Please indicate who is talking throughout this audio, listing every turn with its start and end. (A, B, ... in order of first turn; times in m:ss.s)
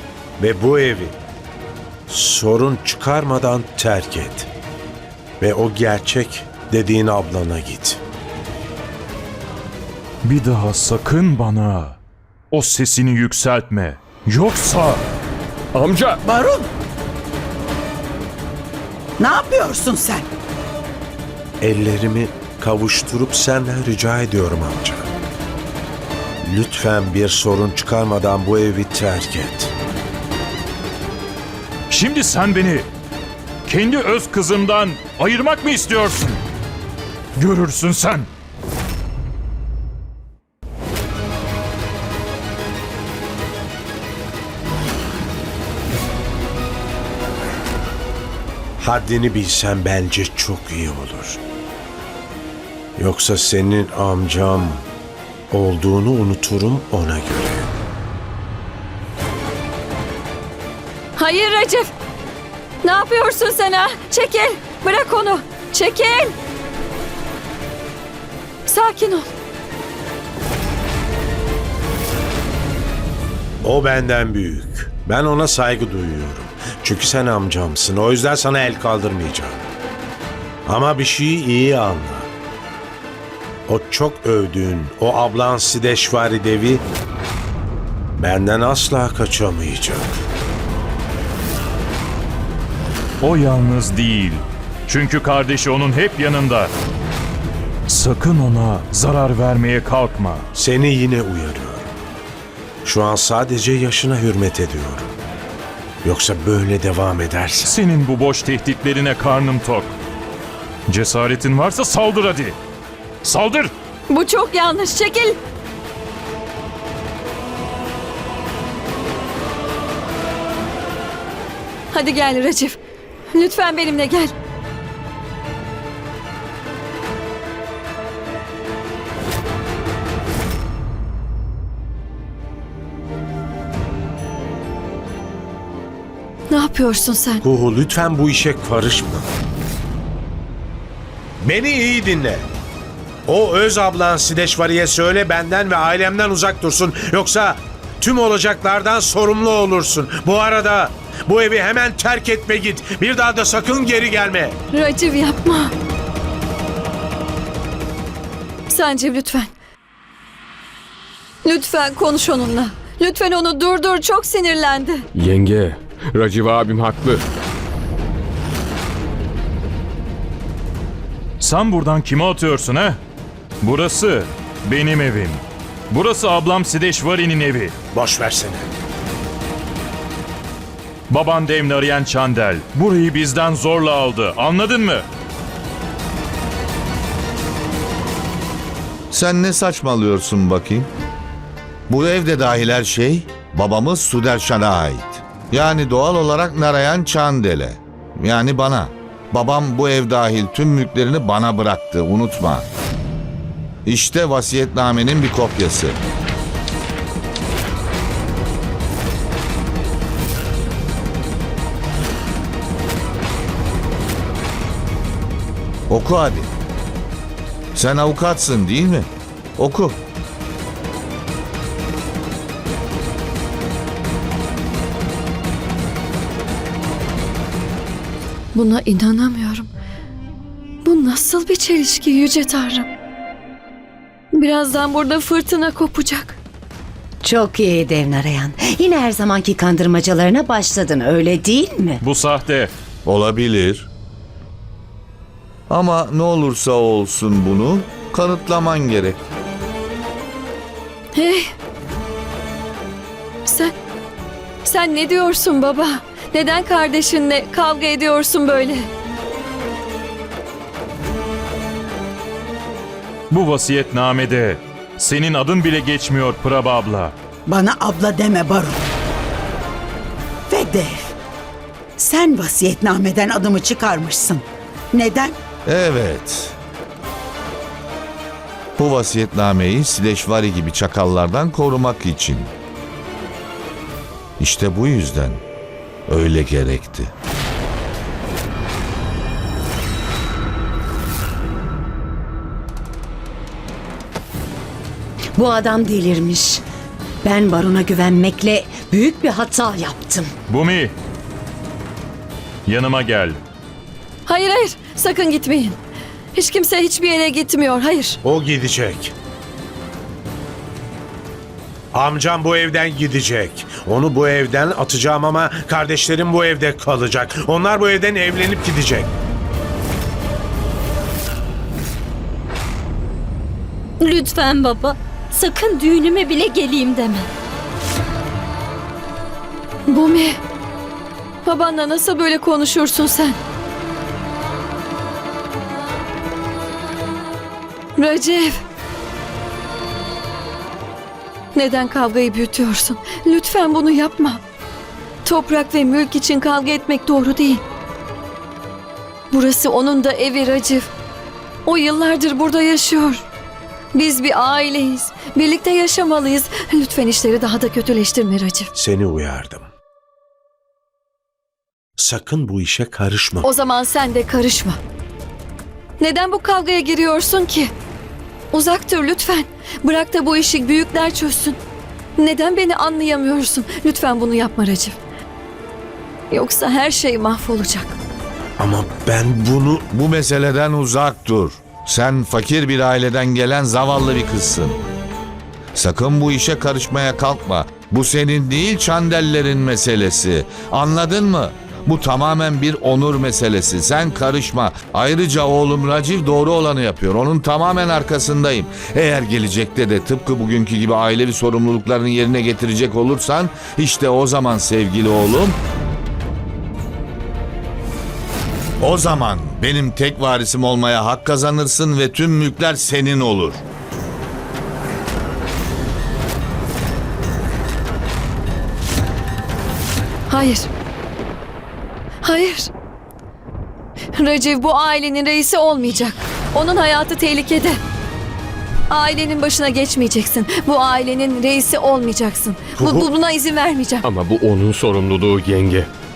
0:00.4-0:01.2 A
0:02.1-0:04.5 A
0:05.4-0:08.0 A
0:10.2-0:12.0 B
0:12.5-0:15.0 B
0:15.7-0:16.2 C
0:16.2-0:16.7 D
0:19.2-0:20.2 D
0:21.6-0:25.1 A
0:26.4-0:29.7 A
0:31.9-0:32.9 B
0:33.6-0:36.4 B
0:37.4-0:38.3 B
0:48.8-0:51.4 A
0:53.0-0:54.8 A
0:55.5-0:57.7 A
1:01.2-1:01.9 E
1:02.8-1:06.4 E
1:08.6-1:09.3 E
1:13.6-1:19.6 A
1:20.6-1:22.3 A
1:23.7-1:26.8 A
1:28.2-1:30.2 A
1:33.2-1:36.7 B
1:37.9-1:40.5 B
1:40.5-1:41.9 A
1:42.8-1:45.1 A
1:46.0-1:47.7 A
1:47.6-1:50.0 B
1:50.9-1:52.6 B
1:53.2-1:53.7 B
1:54.1-1:55.4 E
2:01.9-2:02.8 E
2:03.3-2:04.3 E
2:16.5-2:17.4 E
2:17.4-2:19.3 A
2:21.4-2:22.4 A
2:23.2-2:34.6 A
2:34.7-2:35.7 E
2:38.7-2:39.5 E
2:41.4-2:45.0 E
2:45.1-2:47.2 C
2:51.4-2:53.0 B
2:53.6-2:57.7 B
2:57.9-2:58.7 A
3:01.1-3:05.0 B
3:09.1-3:10.9 F
3:11.9-3:22.7 F
3:23.8-3:26.0 F
3:35.9-3:36.5 F
3:37.7-3:40.0 F
3:48.5-3:49.7 E
3:50.8-3:52.9 E
3:54.3-3:56.4 E
3:57.2-4:02.0 G
4:02.0-4:02.7 B
4:03.0-4:03.9 F
4:05.7-4:09.3 F
4:11.1-4:11.5 E
4:13.4-4:13.7 E
4:14.6-4:18.9 E
4:23.3-4:27.1 B
4:27.4-4:28.8 D
4:30.5-4:31.1 D
4:32.0-4:35.4 D
4:35.6-4:36.6 F
4:38.8-4:42.5 F
4:44.4-4:45.4 F
4:46.1-4:47.1 F
4:55.4-4:56.6 G
4:57.2-5:00.3 G
5:00.5-5:00.9 B
5:02.6-5:03.4 B
5:04.2-5:05.8 E
5:06.3-5:08.2 E
5:08.2-5:09.1 A
5:11.9-5:19.1 A
5:24.0-5:27.3 H
5:29.9-5:30.4 E
5:31.4-5:33.4 E
5:38.0-5:38.6 E
5:41.5-5:44.4 E
5:45.2-5:47.6 E
5:49.3-5:50.9 E
5:51.6-5:53.2 E
5:53.9-5:58.7 E
5:58.7-5:59.7 A
6:02.0-6:03.5 A
6:03.4-6:04.8 E
6:06.0-6:07.7 E
6:08.5-6:11.6 E
6:12.2-6:15.0 E
6:16.3-6:17.9 E
6:18.6-6:19.8 A
6:19.9-6:24.8 F
6:25.7-6:45.6 F
6:48.8-6:53.6 F
7:00.3-7:00.7 E
7:02.2-7:02.7 E
7:04.1-7:07.8 E
7:08.9-7:14.0 E
7:12.8-7:13.1 A
7:14.0-7:15.9 C